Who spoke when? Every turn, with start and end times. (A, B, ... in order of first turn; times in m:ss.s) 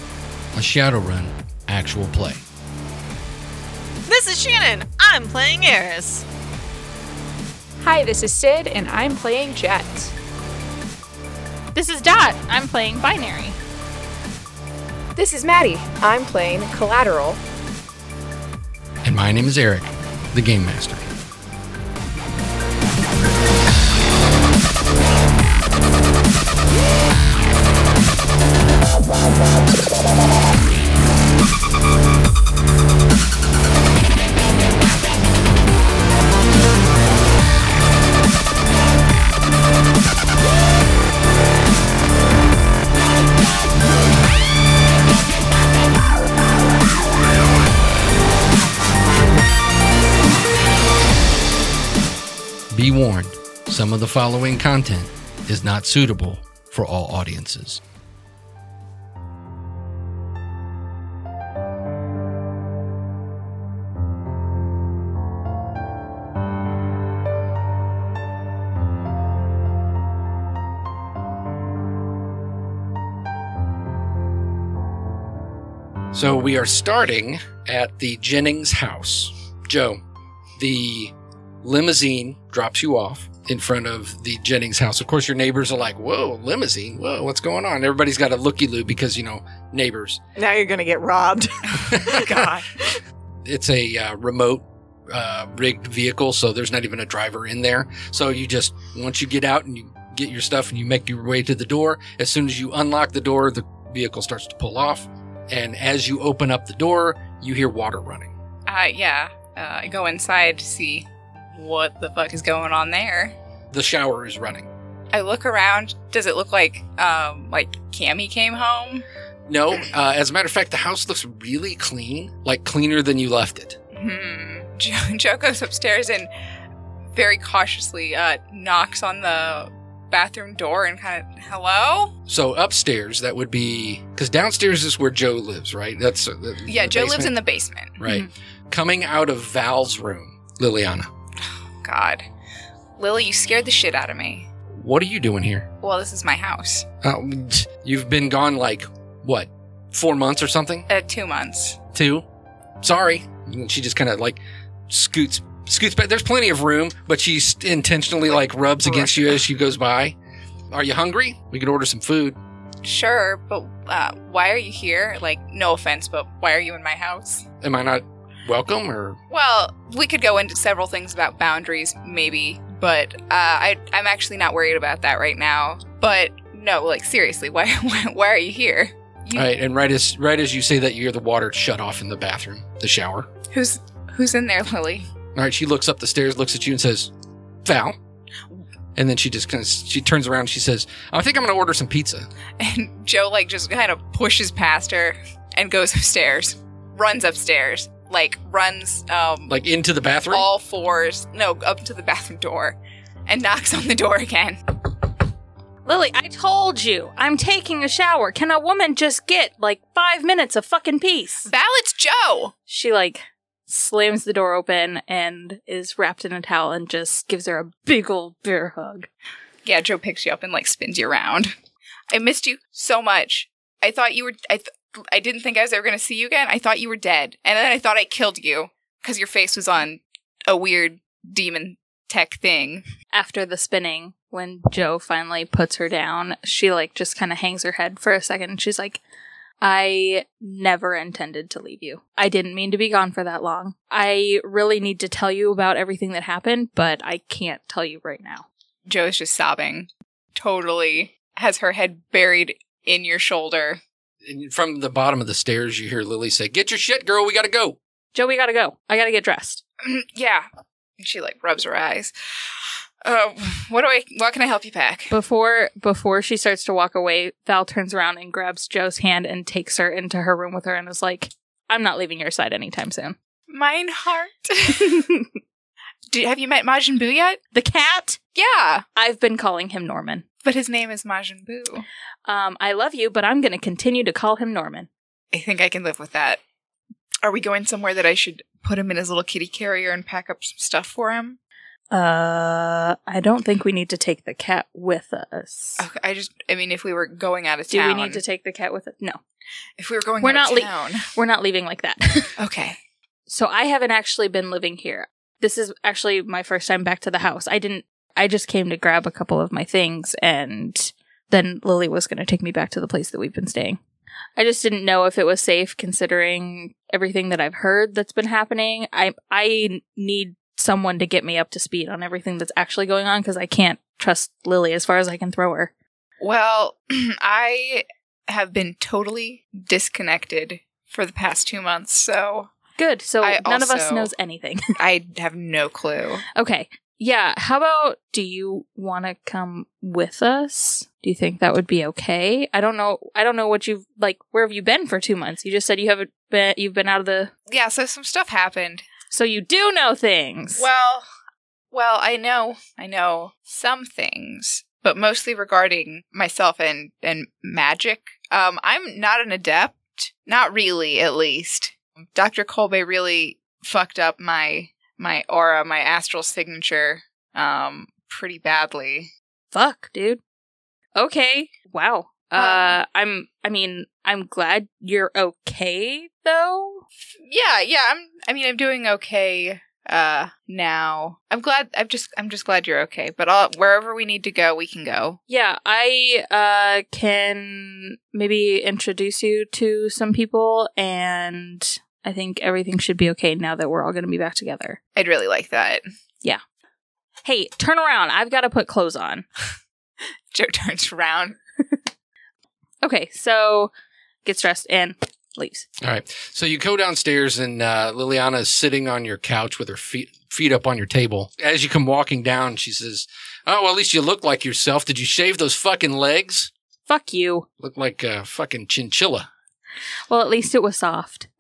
0:00.5-0:02.4 A
0:04.1-0:06.3 B
0:07.8-0:10.1 C
0:11.7-0:13.6 D
0:15.2-0:17.4 C
0:19.0-0:21.1 A
0:52.7-0:57.8 A
1:16.1-1:20.0 A
1:20.6-1:30.2 A
1:30.4-1:33.0 B
1:31.8-1:32.4 A
1:33.4-1:48.3 A
1:48.7-1:53.3 E
1:53.7-1:54.7 A
1:55.1-1:59.1 E
1:59.5-2:03.8 A
2:03.9-2:06.3 E
2:07.2-2:12.1 E
2:12.3-2:17.3 A
2:16.7-2:18.0 E
2:18.0-2:21.1 A
2:21.8-2:22.2 E
2:23.0-2:24.5 E
2:24.8-2:25.7 A
2:25.8-2:26.9 E
2:27.0-2:30.9 A
2:30.9-2:31.8 E
2:31.9-2:32.2 A
2:32.8-2:40.2 A
2:38.9-2:39.3 E
2:40.7-2:42.4 A
2:42.8-2:47.4 E
2:47.6-2:49.2 A
2:49.3-2:59.5 E
2:59.4-3:03.3 A
3:03.5-3:05.1 E
3:05.4-3:07.1 A
3:07.6-3:08.0 A
3:09.0-3:12.3 A
3:12.6-3:19.6 E
3:19.5-3:20.5 A
3:20.3-3:24.7 E
3:25.8-3:31.5 D
3:31.5-3:32.5 E
3:32.7-3:39.1 D
3:39.6-3:41.5 E
3:42.1-3:52.8 E
3:53.1-3:59.0 D
3:59.6-4:08.5 D
4:08.9-4:13.8 E
4:14.2-4:17.8 A
4:18.1-4:19.6 D
4:19.8-4:20.5 E
4:21.0-4:22.1 E
4:23.0-4:25.1 E
4:25.1-4:33.2 D
4:33.5-4:35.1 E
4:36.1-4:37.4 E
4:37.5-4:38.2 D
4:38.4-4:38.8 E
4:39.0-4:40.3 D
4:40.4-4:41.9 E
4:42.3-4:44.9 D
4:45.3-4:46.4 E
4:47.2-4:51.4 E
4:51.9-4:55.8 D
4:55.8-4:58.2 E
4:57.7-4:59.2 D
4:59.8-5:01.1 E
5:00.2-5:02.4 D
5:02.4-5:02.8 E
5:03.3-5:13.8 D
5:14.4-5:25.7 D
5:26.2-5:32.5 E
5:32.8-5:34.7 D
5:33.2-5:34.1 E
5:34.8-5:36.2 E
5:36.4-5:47.3 D
5:47.5-5:48.9 E
5:49.1-5:50.6 D
5:50.6-5:51.1 E
5:51.7-6:09.1 E
6:09.5-6:10.2 D
6:11.0-6:16.8 D
6:12.4-6:12.8 E
6:17.2-6:25.2 E
6:25.3-6:34.8 D
6:35.0-6:35.8 E
6:37.2-6:39.2 D
6:40.3-6:41.4 E
6:42.8-6:43.7 D
6:44.2-6:45.7 D
6:45.8-6:56.5 A
6:56.9-6:57.5 D
6:57.6-6:59.3 A
7:00.1-7:01.3 D